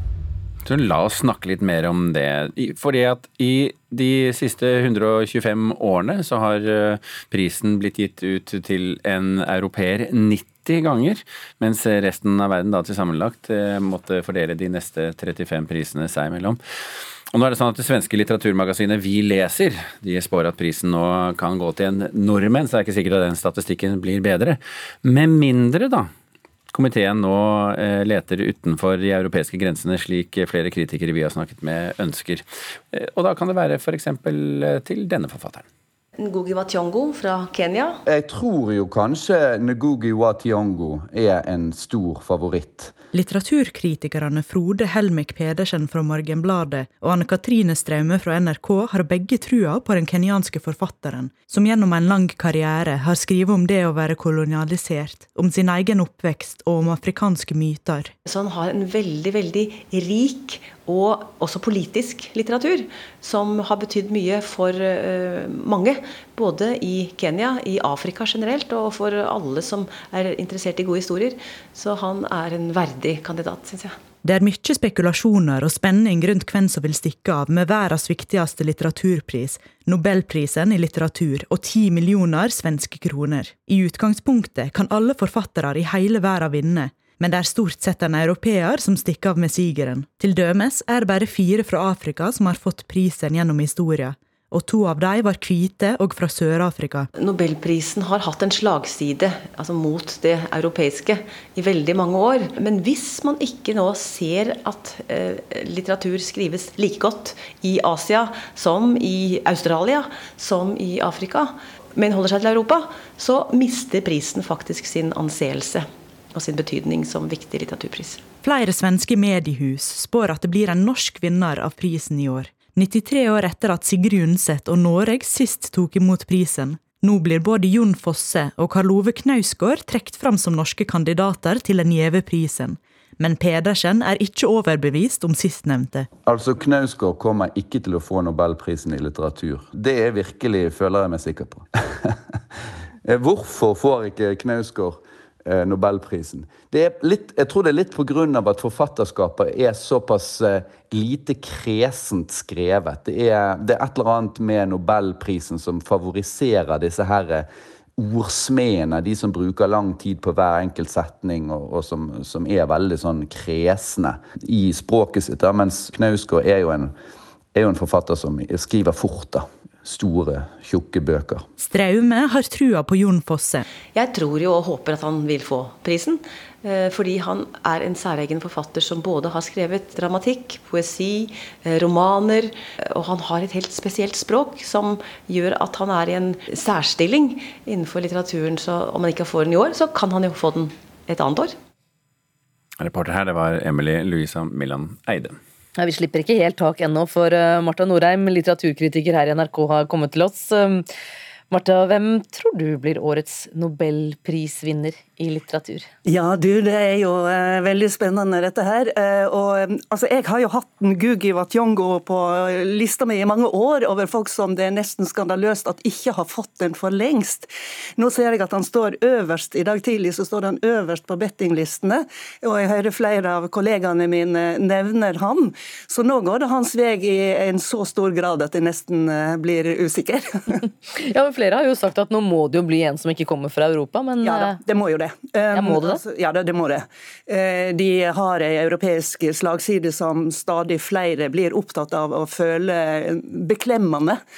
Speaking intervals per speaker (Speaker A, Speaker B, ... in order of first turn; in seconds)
Speaker A: 0.7-16.6, 17.3-26.1, 26.7-35.7, 192.8-195.4
Speaker B: 36.2-38.0, 58.3-74.0, 97.2-118.2, 173.9-191.6
Speaker C: 38.1-42.9, 136.3-141.7, 143.1-157.5, 158.0-166.9, 167.5-171.4
Speaker D: 43.1-58.1, 74.2-97.0, 118.4-136.1, 171.6-173.6
Speaker E: 195.8-200.9, 201.5-205.9, 230.9-234.6, 235.5-236.0
Speaker F: 206.1-230.6, 234.2-244.2